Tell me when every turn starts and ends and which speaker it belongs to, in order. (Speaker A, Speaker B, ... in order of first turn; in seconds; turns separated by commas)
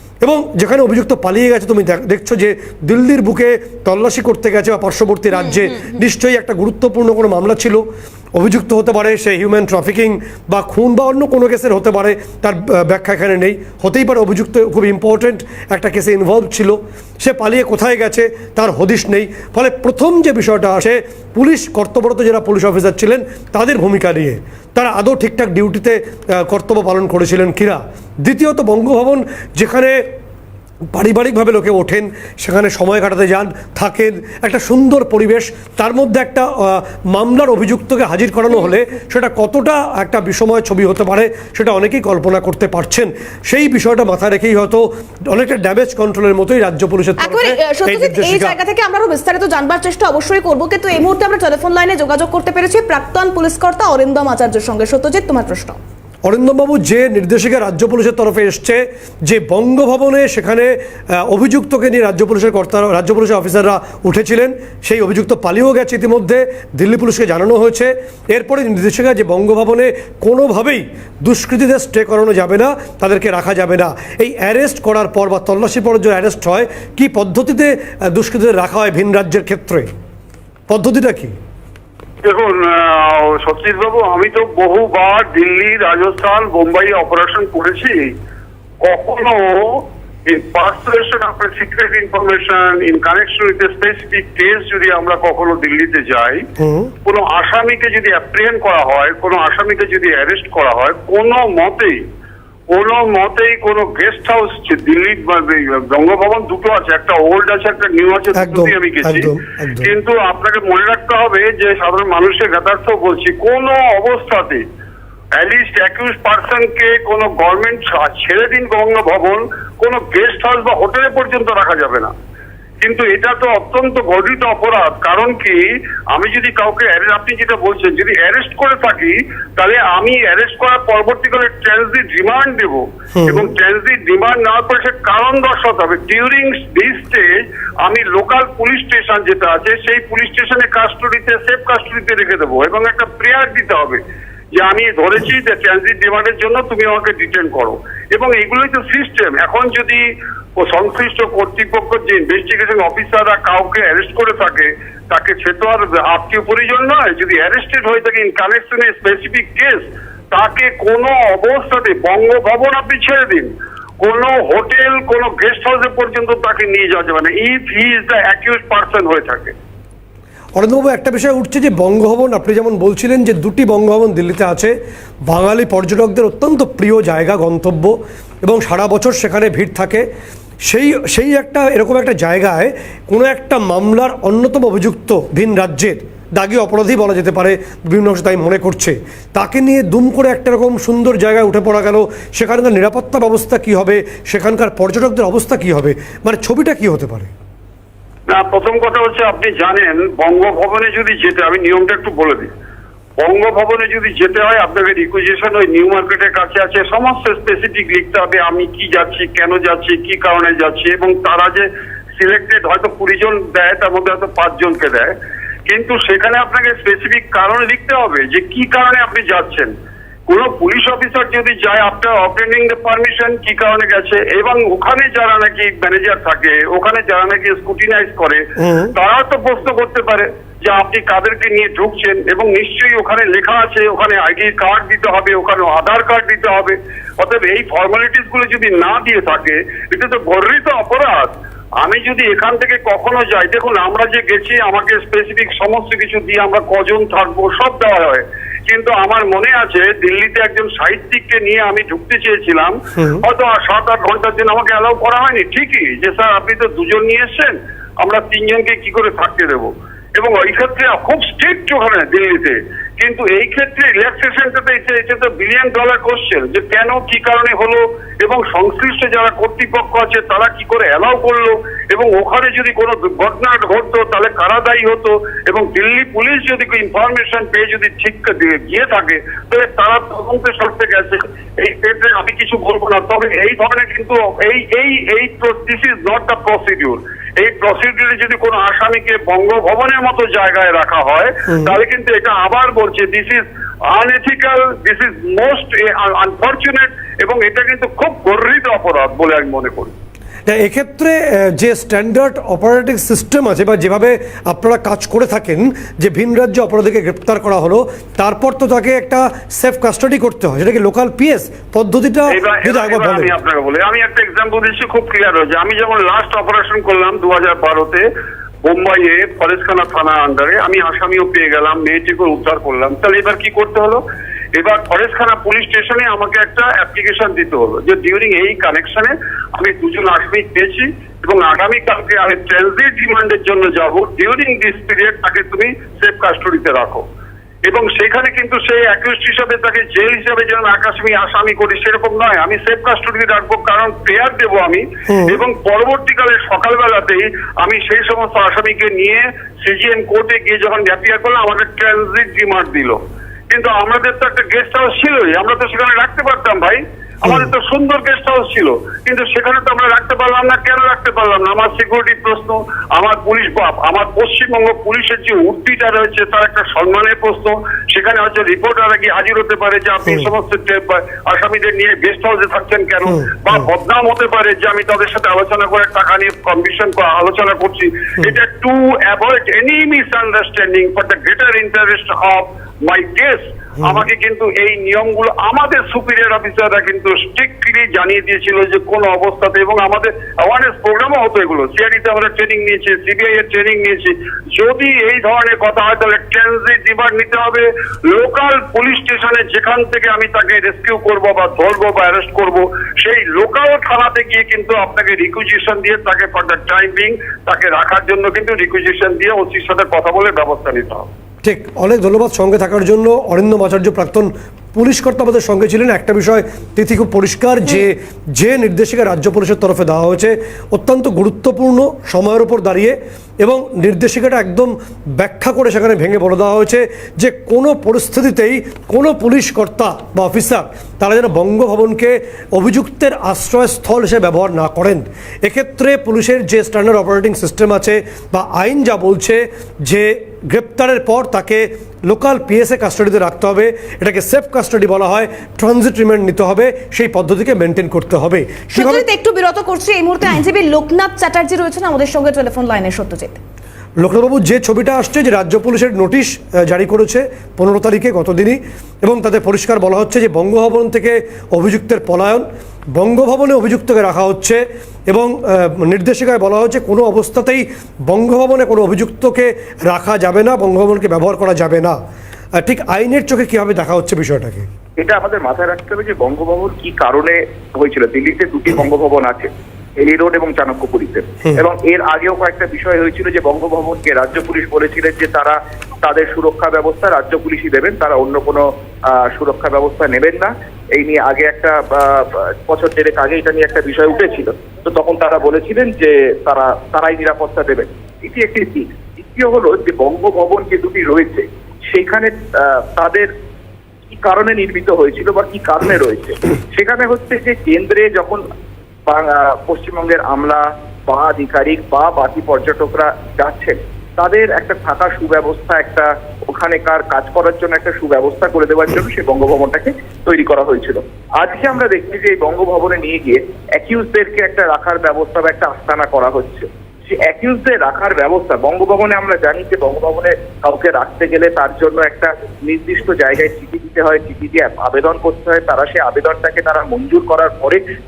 Speaker A: 0.2-30.0, Speaker A: 30.9-48.6, Speaker B: 47.2-55.8, Speaker A: 56.2-79.9, Speaker A: 80.7-81.3, Speaker C: 82.2-88.1, Speaker C: 88.8-96.4, Speaker A: 96.6-96.9, Speaker C: 97.0-102.0, Speaker C: 102.7-109.3, Speaker A: 108.3-109.9, Speaker C: 109.8-114.6, Speaker C: 115.4-122.1, Speaker C: 122.8-144.0, Speaker A: 133.2-133.5, Speaker C: 144.6-150.0, Speaker C: 150.6-169.5, Speaker A: 170.6-174.7, Speaker A: 175.3-180.1, Speaker A: 180.7-197.3, Speaker C: 198.3-202.5, Speaker C: 203.2-211.7, Speaker C: 212.2-215.1, Speaker C: 215.7-219.7, Speaker C: 220.3-228.4, Speaker A: 228.6-228.9, Speaker C: 228.9-241.3, Speaker C: 241.8-293.4, Speaker A: 253.0-253.2, Speaker C: 293.9-299.9, Speaker A: 300.5-313.3, Speaker C: 312.3-318.1, Speaker C: 318.6-324.0, Speaker C: 324.6-337.0, Speaker C: 337.7-353.0, Speaker A: 345.1-345.4, Speaker C: 353.5-411.1, Speaker A: 357.2-357.5, Speaker A: 373.1-373.6, Speaker A: 411.4-449.1, Speaker B: 448.7-453.4, Speaker A: 454.0-472.0, Speaker A: 472.6-474.7, Speaker D: 475.0-488.6, Speaker D: 489.2-503.3, Speaker D: 504.1-508.4, Speaker D: 509.1-537.8